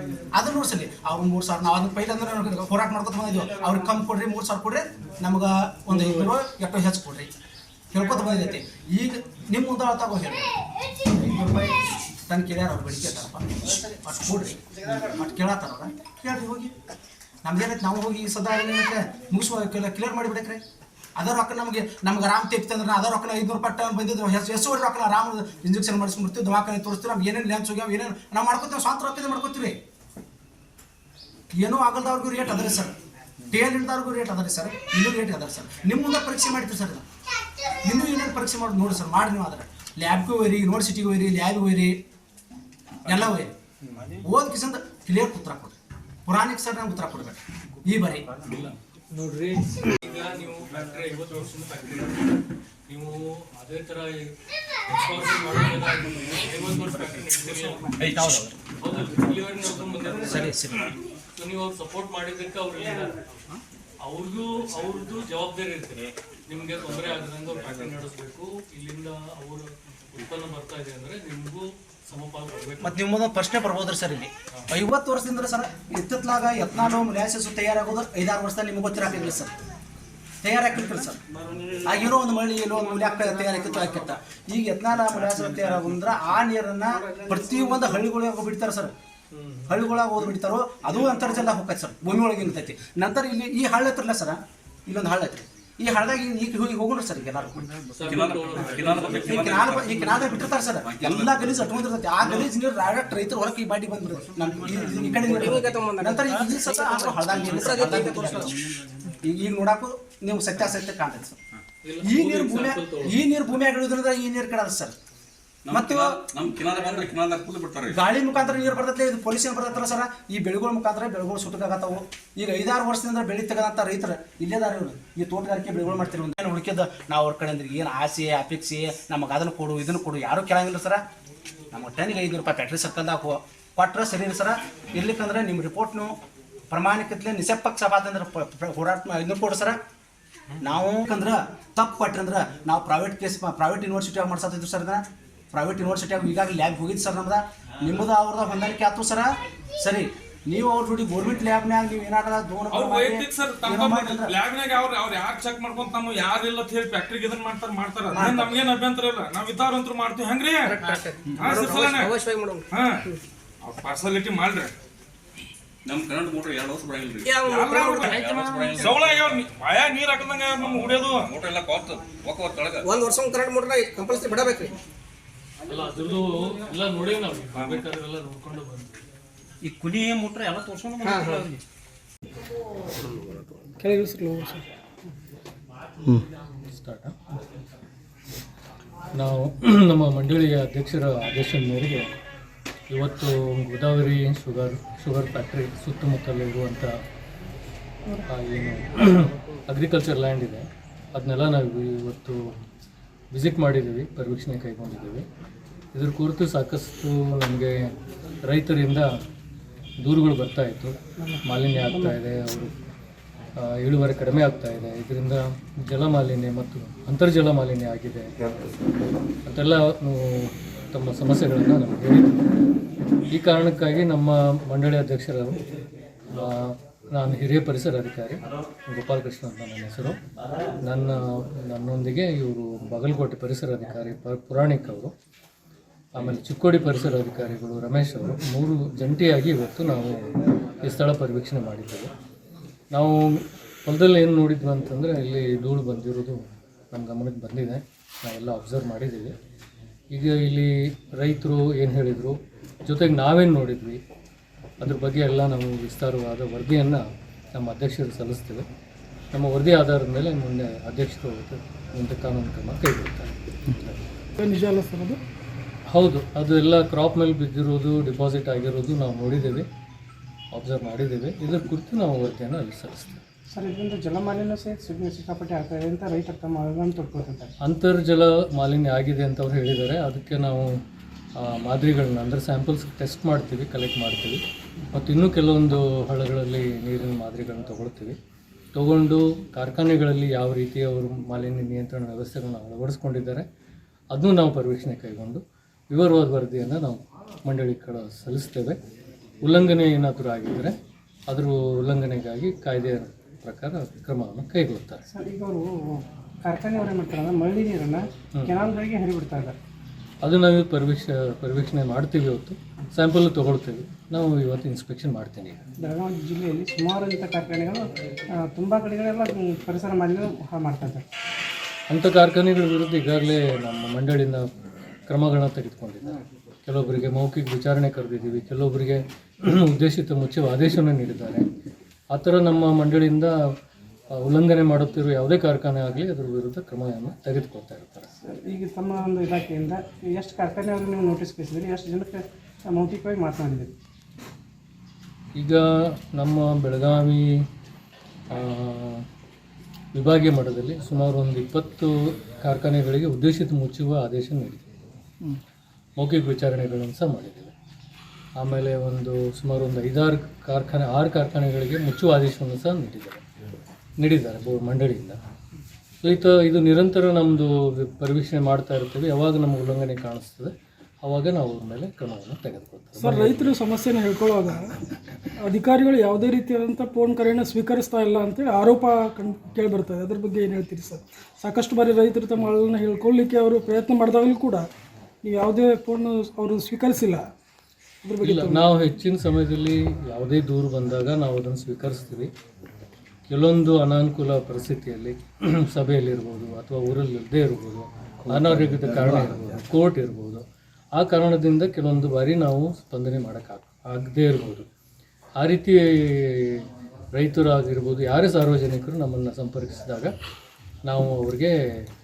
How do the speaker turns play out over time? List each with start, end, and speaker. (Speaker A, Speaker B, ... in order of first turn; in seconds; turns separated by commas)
Speaker A: 0.3-7.3, Speaker A: 7.9-11.8, Speaker A: 12.3-16.7, Speaker A: 17.4-20.6, Speaker A: 21.1-29.8, Speaker A: 31.5-33.0, Speaker A: 33.5-37.0, Speaker A: 37.7-41.9, Speaker A: 43.0-43.5, Speaker A: 44.2-48.3, Speaker B: 48.5-52.3, Speaker B: 52.9-54.3, Speaker B: 54.9-58.0, Speaker C: 58.0-58.5, Speaker A: 58.0-58.5, Speaker B: 58.8-60.8, Speaker A: 60.2-60.9, Speaker B: 61.4-63.2, Speaker B: 64.0-73.0, Speaker A: 72.8-79.5, Speaker A: 80.4-81.2, Speaker A: 81.8-88.9, Speaker B: 89.3-89.8, Speaker A: 89.7-97.8, Speaker B: 97.9-99.8, Speaker C: 98.0-101.8, Speaker A: 99.1-108.6, Speaker D: 104.9-108.6, Speaker A: 109.2-111.4, Speaker B: 111.8-113.2, Speaker A: 112.0-114.9, Speaker C: 115.6-118.0, Speaker A: 115.7-117.0, Speaker A: 117.9-131.0, Speaker A: 131.7-136.1, Speaker A: 136.7-139.8, Speaker A: 140.6-154.3, Speaker E: 152.7-160.8, Speaker A: 158.1-158.6, Speaker D: 160.7-163.2, Speaker E: 161.4-162.1, Speaker E: 162.7-163.0, Speaker E: 163.6-164.7, Speaker C: 165.8-169.4, Speaker D: 167.2-168.1, Speaker E: 167.5-171.3, Speaker C: 170.8-173.2, Speaker D: 172.8-174.7, Speaker B: 175.7-179.0, Speaker E: 177.5-177.8, Speaker A: 179.7-181.3, Speaker D: 181.0-181.6, Speaker F: 183.8-184.6, Speaker B: 186.7-187.1, Speaker B: 189.1-192.1, Speaker B: 192.9-196.9, Speaker B: 198.3-202.4, Speaker B: 203.3-205.2, Speaker B: 205.9-207.7, Speaker B: 208.4-209.1, Speaker B: 210.0-212.7, Speaker G: 211.2-212.2, Speaker B: 213.6-218.3, Speaker B: 219.4-222.4, Speaker B: 223.3-225.6, Speaker B: 226.3-230.2, Speaker B: 230.8-235.1, Speaker B: 236.1-240.1, Speaker B: 240.8-242.1, Speaker B: 242.9-246.4, Speaker B: 246.9-249.3, Speaker B: 250.1-254.0, Speaker B: 254.8-257.0, Speaker B: 257.5-258.6, Speaker B: 259.3-264.0, Speaker F: 264.4-265.2, Speaker B: 265.9-269.6, Speaker B: 270.5-273.2, Speaker G: 273.5-277.5, Speaker B: 277.6-280.7, Speaker B: 281.4-284.4, Speaker B: 284.9-288.2, Speaker B: 288.7-293.4, Speaker B: 294.1-295.4, Speaker B: 295.9-298.8, Speaker B: 299.4-300.7, Speaker B: 301.3-305.0, Speaker G: 305.1-309.5, Speaker B: 310.2-315.6, Speaker G: 315.8-317.9, Speaker G: 318.5-321.0, Speaker B: 321.9-324.4, Speaker B: 325.1-331.4, Speaker B: 332.1-333.3, Speaker B: 334.1-338.1, Speaker G: 338.2-343.7, Speaker B: 346.1-347.2, Speaker B: 348.3-349.0, Speaker B: 349.9-351.9, Speaker B: 352.4-354.7, Speaker B: 356.0-357.5, Speaker B: 358.4-363.2, Speaker B: 364.0-365.2, Speaker B: 366.0-370.5, Speaker B: 371.0-373.5, Speaker F: 373.0-374.8, Speaker F: 375.4-384.7, Speaker F: 385.2-387.2, Speaker F: 388.0-388.9, Speaker B: 388.2-392.3, Speaker B: 393.3-400.4, Speaker B: 401.0-404.7, Speaker B: 405.4-410.1, Speaker B: 410.9-411.5